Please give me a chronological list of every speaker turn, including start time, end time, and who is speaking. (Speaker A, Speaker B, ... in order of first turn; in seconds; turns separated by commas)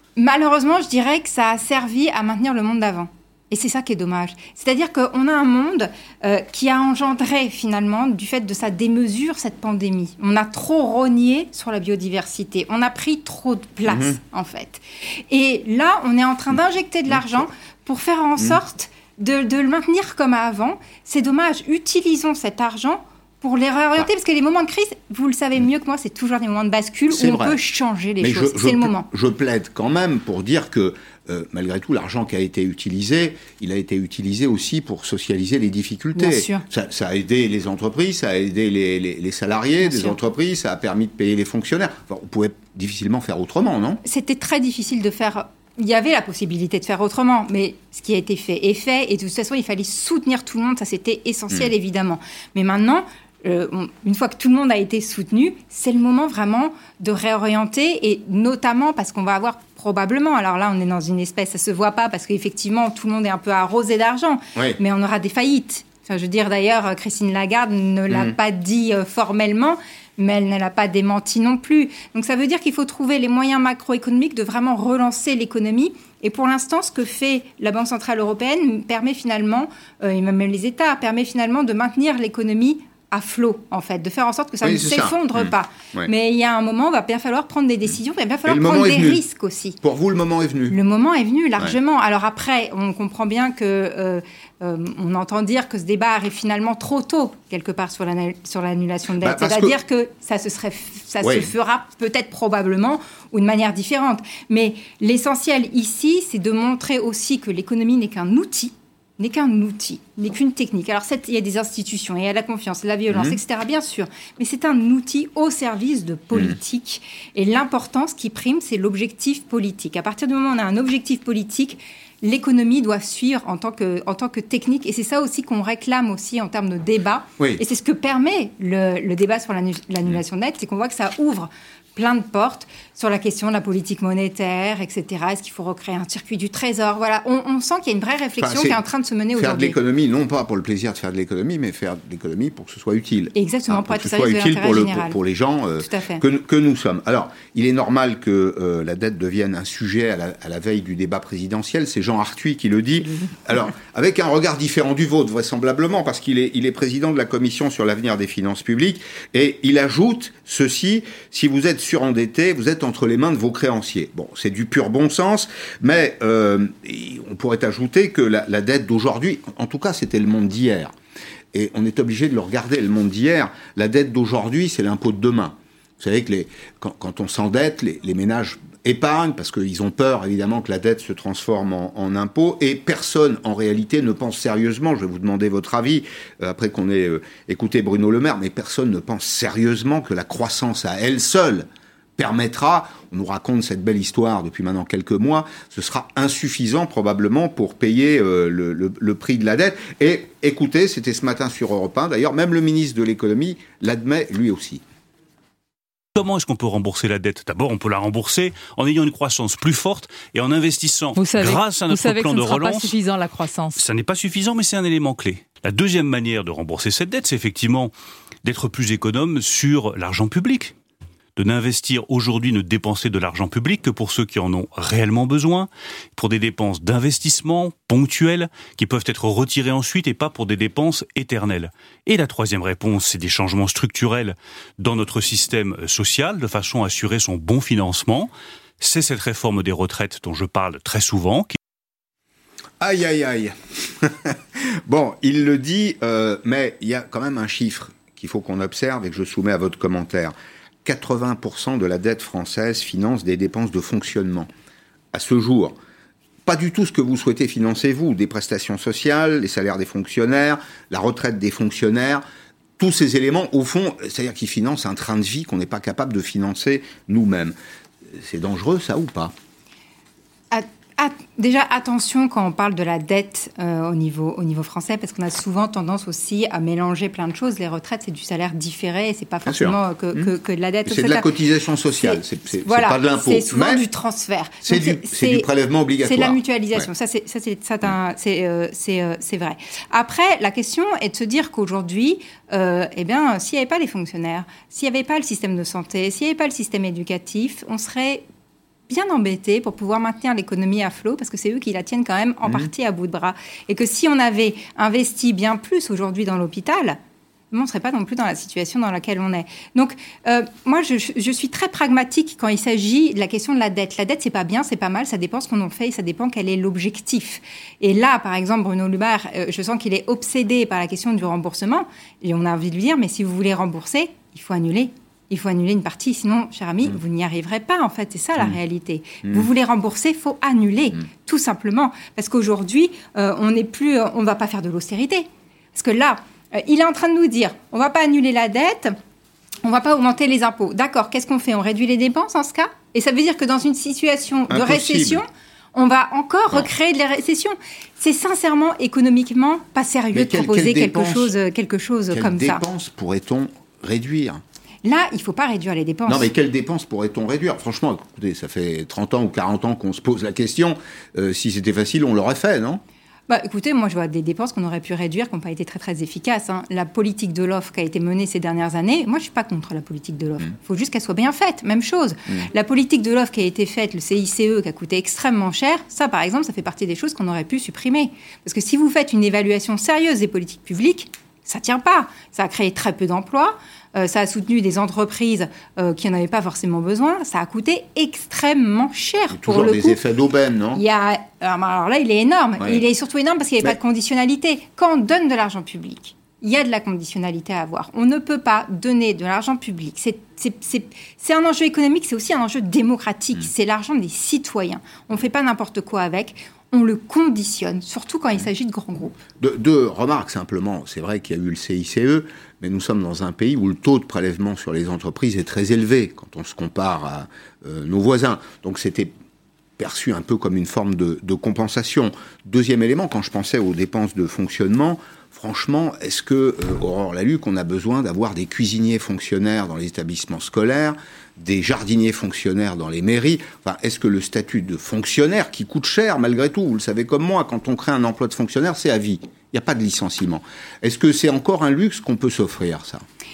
Speaker A: 0.2-29.1, Speaker B: 13.9-14.2, Speaker B: 27.1-27.6, Speaker B: 28.2-44.0, Speaker A: 36.2-36.6, Speaker A: 39.8-40.2, Speaker A: 44.0-89.8, Speaker B: 68.1-68.3, Speaker B: 84.6-86.1, Speaker B: 88.4-89.2, Speaker B: 89.8-90.8, Speaker A: 90.7-139.8, Speaker B: 99.2-99.8, Speaker B: 101.2-101.5, Speaker B: 113.1-113.4, Speaker B: 138.4-138.8, Speaker B: 139.3-170.9, Speaker A: 143.3-145.2, Speaker A: 145.8-146.2, Speaker B: 171.5-204.8, Speaker C: 206.2-213.0, Speaker D: 211.1-213.8, Speaker C: 213.8-217.9, Speaker C: 218.4-220.8, Speaker C: 221.4-241.6, Speaker B: 242.8-254.5, Speaker B: 255.1-255.8, Speaker B: 256.5-262.2, Speaker B: 262.8-267.5, Speaker B: 268.1-269.3, Speaker A: 270.5-281.3, Speaker B: 279.5-280.3, Speaker B: 280.9-283.8, Speaker A: 282.0-285.5, Speaker B: 284.6-286.9, Speaker A: 286.0-298.2, Speaker A: 298.9-307.0, Speaker A: 307.5-338.9, Speaker A: 339.6-352.6, Speaker B: 344.5-345.2, Speaker B: 350.1-351.3, Speaker B: 352.1-354.4, Speaker A: 354.8-356.3, Speaker B: 356.1-362.8, Speaker A: 363.3-390.0, Speaker B: 389.3-390.8, Speaker A: 390.7-409.1, Speaker B: 409.4-419.1, Speaker B: 419.8-443.0